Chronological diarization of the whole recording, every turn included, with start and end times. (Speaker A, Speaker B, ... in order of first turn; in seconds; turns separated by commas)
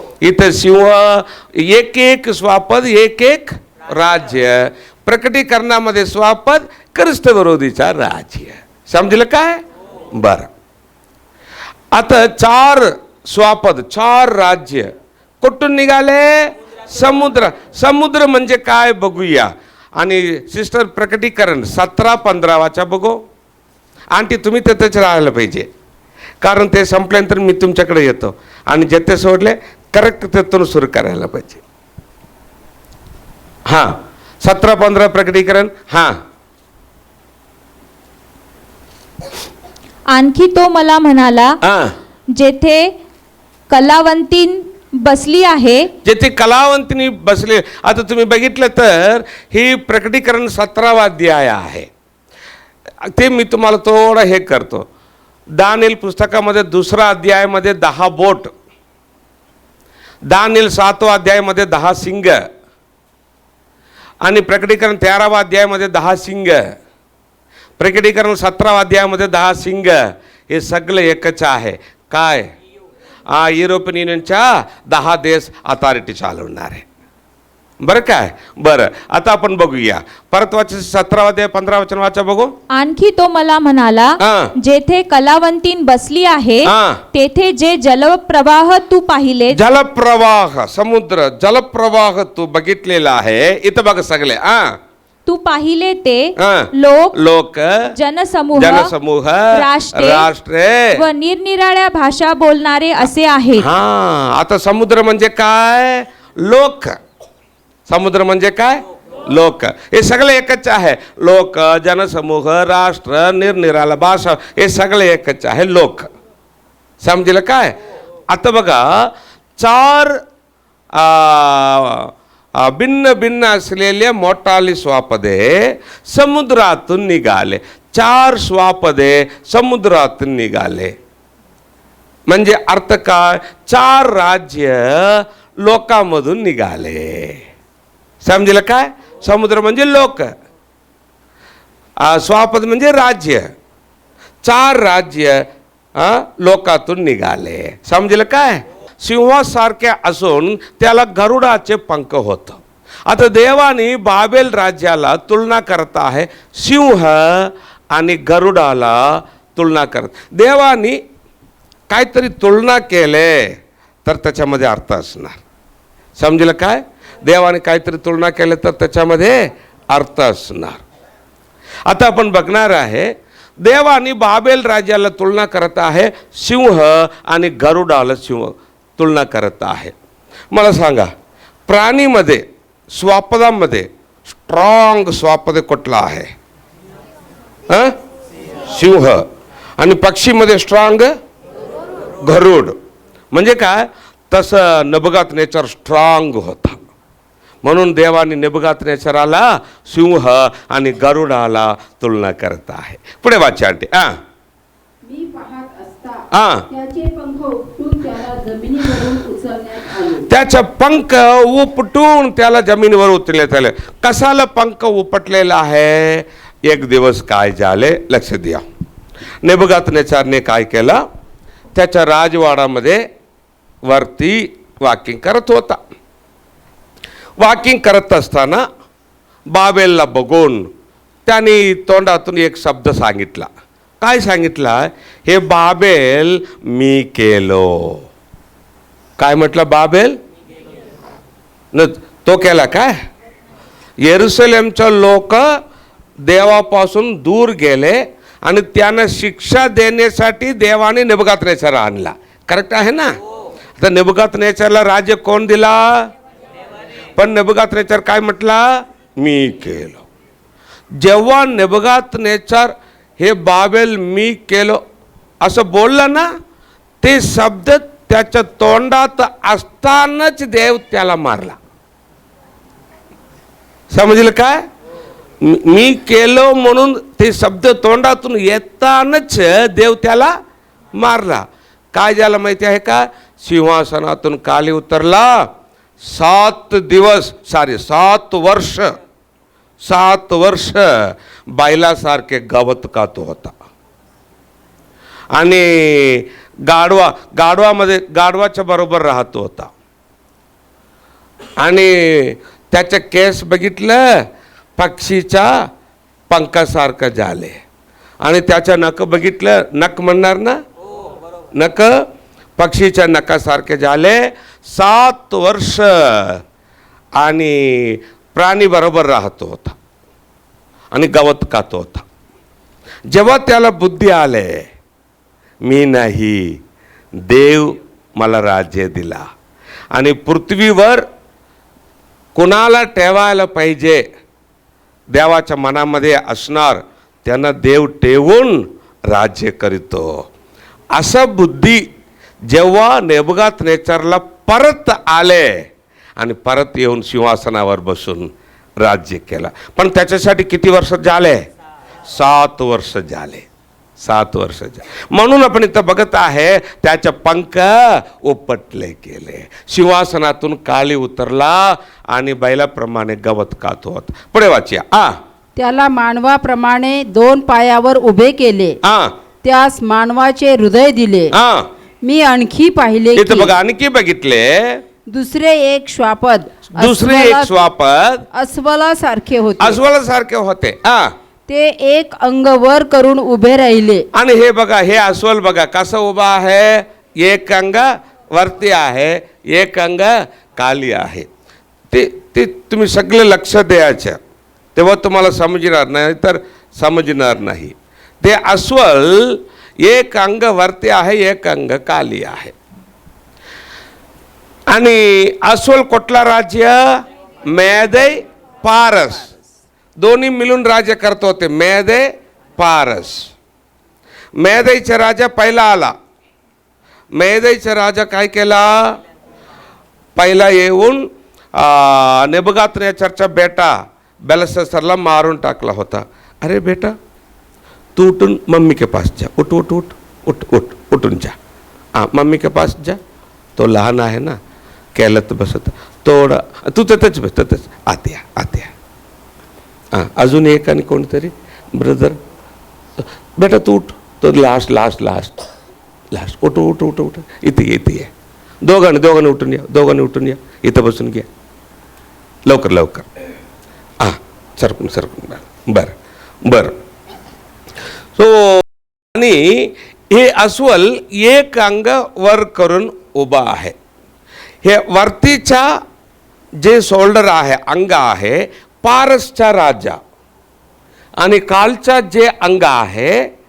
Speaker A: 0.2-10.5, Speaker A: 11.9-23.2, Speaker A: 24.1-25.7, Speaker A: 26.4-31.6, Speaker A: 33.7-36.2, Speaker B: 40.1-41.6, Speaker A: 41.6-41.9, Speaker B: 42.4-42.9, Speaker B: 43.7-45.9, Speaker A: 46.0-51.9, Speaker A: 53.0-54.9, Speaker A: 55.6-58.5, Speaker A: 60.3-62.5, Speaker A: 64.2-66.7, Speaker A: 67.8-72.5, Speaker A: 73.3-76.8, Speaker A: 77.8-82.5, Speaker B: 82.7-89.6, Speaker A: 84.2-84.5, Speaker A: 86.6-87.0, Speaker A: 89.5-94.8, Speaker B: 95.3-97.2, Speaker A: 96.4-97.9, Speaker B: 97.9-98.9, Speaker A: 98.5-101.0, Speaker B: 99.5-100.3, Speaker B: 100.9-103.7, Speaker A: 103.6-107.0, Speaker A: 107.9-116.1, Speaker A: 117.0-117.8, Speaker A: 118.3-120.2, Speaker A: 120.9-130.9, Speaker A: 132.3-137.4, Speaker A: 138.2-140.3, Speaker A: 142.0-143.5, Speaker A: 144.4-161.0, Speaker A: 161.9-165.4, Speaker A: 166.2-170.8, Speaker A: 171.9-179.9, Speaker A: 180.5-181.1, Speaker A: 181.7-186.3, Speaker A: 187.7-187.9, Speaker A: 188.7-189.2, Speaker A: 189.8-191.2, Speaker A: 192.2-192.8, Speaker A: 193.3-196.8, Speaker A: 197.6-204.2, Speaker C: 205.0-210.2, Speaker A: 206.3-206.7, Speaker A: 210.3-218.6, Speaker A: 219.4-221.0, Speaker A: 221.8-223.1, Speaker A: 223.9-225.8, Speaker A: 227.4-228.7, Speaker A: 229.5-230.7, Speaker A: 231.3-233.5, Speaker A: 234.0-238.1, Speaker A: 239.2-240.2, Speaker A: 241.7-243.0, Speaker A: 244.0-245.6, Speaker A: 246.3-253.2, Speaker A: 253.8-256.1, Speaker A: 257.2-260.1, Speaker A: 260.9-264.8, Speaker A: 265.4-266.3, Speaker A: 267.0-271.6, Speaker A: 273.9-274.6, Speaker A: 275.4-280.4, Speaker A: 280.9-285.5, Speaker A: 286.0-289.0, Speaker A: 289.8-293.5, Speaker A: 295.3-299.7, Speaker A: 301.6-305.7, Speaker A: 306.3-307.6, Speaker A: 308.2-310.6, Speaker A: 311.5-312.1, Speaker A: 312.6-316.4, Speaker A: 317.2-319.8, Speaker A: 320.9-322.1, Speaker A: 323.1-324.7, Speaker A: 325.6-326.6, Speaker A: 327.2-329.3, Speaker A: 329.9-331.1, Speaker A: 332.4-334.1, Speaker A: 335.1-340.2, Speaker A: 340.9-341.9, Speaker A: 342.5-345.7, Speaker A: 346.2-351.4, Speaker A: 352.1-353.5, Speaker A: 354.0-365.2, Speaker C: 365.6-368.8, Speaker A: 368.8-369.1, Speaker C: 369.4-371.3, Speaker A: 371.3-371.7, Speaker C: 372.0-373.6, Speaker A: 373.2-374.8, Speaker C: 375.1-377.5, Speaker A: 376.8-378.3, Speaker C: 378.3-379.8, Speaker A: 379.6-381.1, Speaker C: 381.5-384.1, Speaker A: 384.1-391.3, Speaker A: 391.9-394.2, Speaker A: 394.8-402.6, Speaker A: 404.7-409.4, Speaker A: 410.0-413.3, Speaker A: 414.4-415.9, Speaker A: 417.2-419.0, Speaker A: 420.2-423.8, Speaker A: 424.3-427.0, Speaker A: 428.0-431.4, Speaker A: 431.9-433.0, Speaker A: 433.6-434.4, Speaker A: 434.9-438.7, Speaker A: 439.9-442.2, Speaker A: 443.4-445.5, Speaker A: 446.1-448.1, Speaker A: 448.6-451.3, Speaker A: 452.5-453.1, Speaker A: 454.0-455.9, Speaker A: 456.4-456.8, Speaker A: 458.2-463.8, Speaker A: 464.6-465.8, Speaker A: 466.6-470.0, Speaker A: 471.2-473.3